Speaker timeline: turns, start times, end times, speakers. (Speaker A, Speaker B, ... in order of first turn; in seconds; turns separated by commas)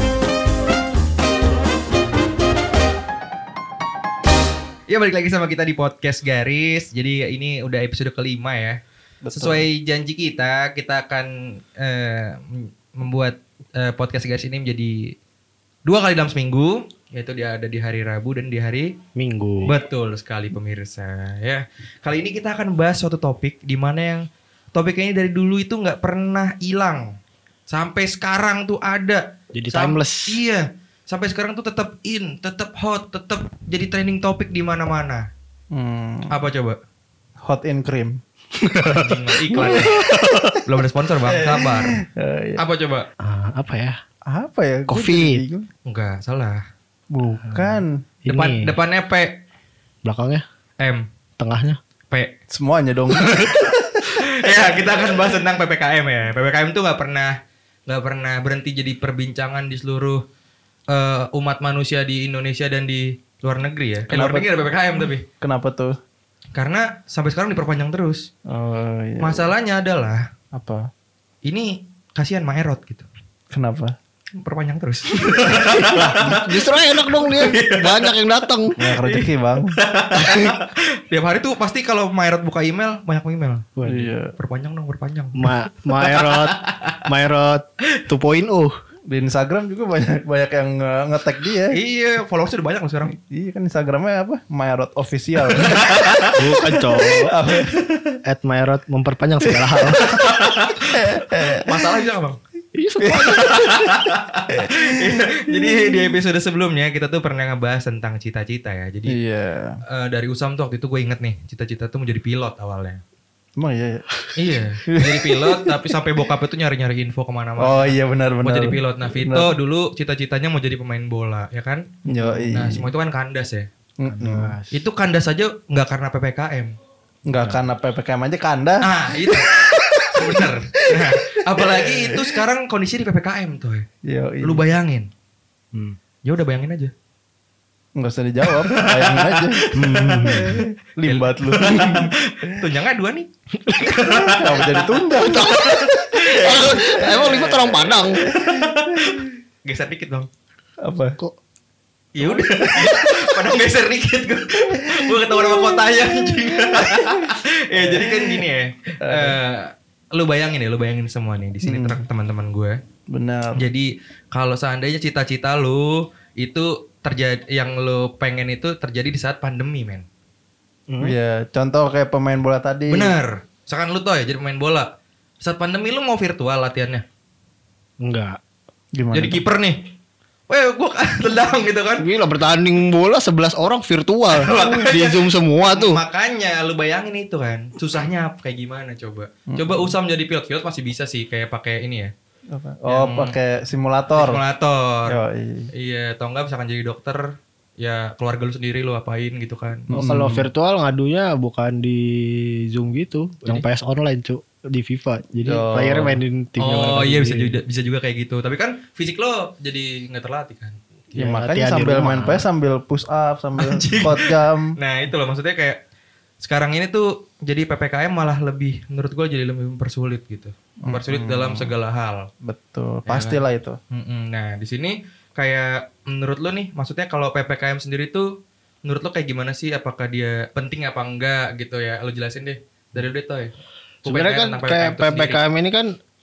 Speaker A: 4.9-8.8, Speaker B: 9.2-9.7, Speaker A: 9.3-15.1, Speaker A: 15.8-18.9, Speaker C: 19.1-19.8, Speaker A: 19.6-27.1, Speaker A: 27.7-35.2, Speaker C: 29.5-30.4, Speaker B: 35.7-36.4, Speaker A: 36.3-36.8, Speaker B: 37.5-38.2, Speaker C: 38.6-40.6, Speaker A: 39.0-40.0, Speaker B: 39.5-40.6, Speaker A: 40.6-42.0, Speaker B: 41.2-42.6, Speaker A: 42.6-43.1, Speaker C: 43.2-44.0, Speaker B: 44.2-45.7, Speaker C: 44.9-45.4, Speaker A: 45.9-46.6, Speaker B: 47.1-48.0, Speaker C: 47.4-48.7, Speaker A: 48.3-49.4, Speaker C: 50.0-50.4, Speaker C: 51.4-51.8, Speaker B: 52.5-54.9, Speaker A: 53.2-53.6, Speaker A: 54.1-57.4, Speaker A: 57.9-60.2, Speaker A: 60.9-65.2, Speaker B: 64.1-64.5, Speaker B: 65.4-65.9, Speaker A: 66.5-68.3, Speaker B: 68.5-69.5, Speaker A: 69.2-70.3, Speaker B: 70.5-70.8, Speaker A: 71.4-73.0, Speaker B: 73.5-73.9, Speaker A: 74.4-83.7, Speaker C: 75.4-78.8, Speaker B: 75.9-76.4, Speaker B: 78.8-79.7, Speaker C: 80.2-80.4, Speaker C: 83.8-84.1, Speaker B: 83.8-84.3, Speaker A: 84.4-87.0, Speaker C: 85.4-88.7, Speaker B: 89.1-91.8, Speaker A: 91.7-93.1, Speaker B: 93.1-98.2, Speaker A: 95.5-96.4, Speaker C: 96.3-97.3, Speaker C: 98.3-100.2, Speaker A: 100.0-102.4, Speaker B: 100.9-101.9, Speaker C: 102.7-103.6, Speaker B: 103.0-106.0, Speaker A: 103.2-109.2, Speaker B: 109.1-109.8, Speaker A: 109.9-113.0, Speaker B: 113.6-114.0, Speaker A: 114.3-121.8, Speaker B: 114.9-116.0, Speaker B: 117.6-119.5, Speaker B: 122.1-122.9, Speaker C: 122.2-122.5, Speaker A: 122.5-123.7, Speaker B: 124.0-124.5, Speaker C: 124.0-124.8, Speaker A: 124.7-126.7, Speaker B: 127.3-132.4, Speaker A: 128.8-129.5, Speaker A: 130.1-133.9, Speaker B: 134.0-134.6, Speaker A: 134.4-135.1, Speaker A: 136.2-136.9, Speaker B: 138.0-142.6, Speaker A: 138.5-150.3, Speaker C: 139.7-140.6, Speaker C: 143.6-144.2, Speaker B: 144.3-147.0, Speaker C: 145.1-148.2, Speaker B: 148.2-149.2, Speaker B: 150.8-151.2, Speaker A: 152.2-162.8, Speaker B: 152.2-153.3, Speaker B: 154.6-158.4, Speaker B: 159.0-159.4, Speaker B: 161.6-162.0, Speaker B: 163.1-163.7, Speaker A: 163.5-170.0, Speaker C: 170.9-171.1, Speaker B: 171.0-173.2, Speaker A: 172.9-174.9, Speaker A: 175.4-177.0, Speaker C: 178.0-178.4, Speaker B: 179.0-179.4, Speaker A: 179.1-179.9, Speaker A: 180.5-182.0, Speaker C: 182.0-186.0, Speaker A: 184.3-192.1, Speaker B: 184.5-184.9, Speaker B: 189.5-189.9, Speaker B: 192.5-194.4, Speaker A: 192.9-193.3, Speaker A: 194.1-195.2, Speaker B: 195.1-195.7, Speaker A: 195.8-197.2, Speaker A: 197.8-199.9, Speaker B: 199.9-200.5, Speaker C: 199.9-207.6, Speaker B: 205.4-206.2, Speaker A: 206.6-210.8, Speaker C: 211.1-212.4, Speaker B: 211.1-214.7, Speaker A: 213.6-215.8, Speaker A: 216.4-222.3, Speaker B: 220.8-221.7, Speaker B: 222.4-223.8, Speaker A: 223.1-228.3, Speaker A: 228.8-233.5, Speaker A: 234.0-235.4, Speaker C: 234.1-235.9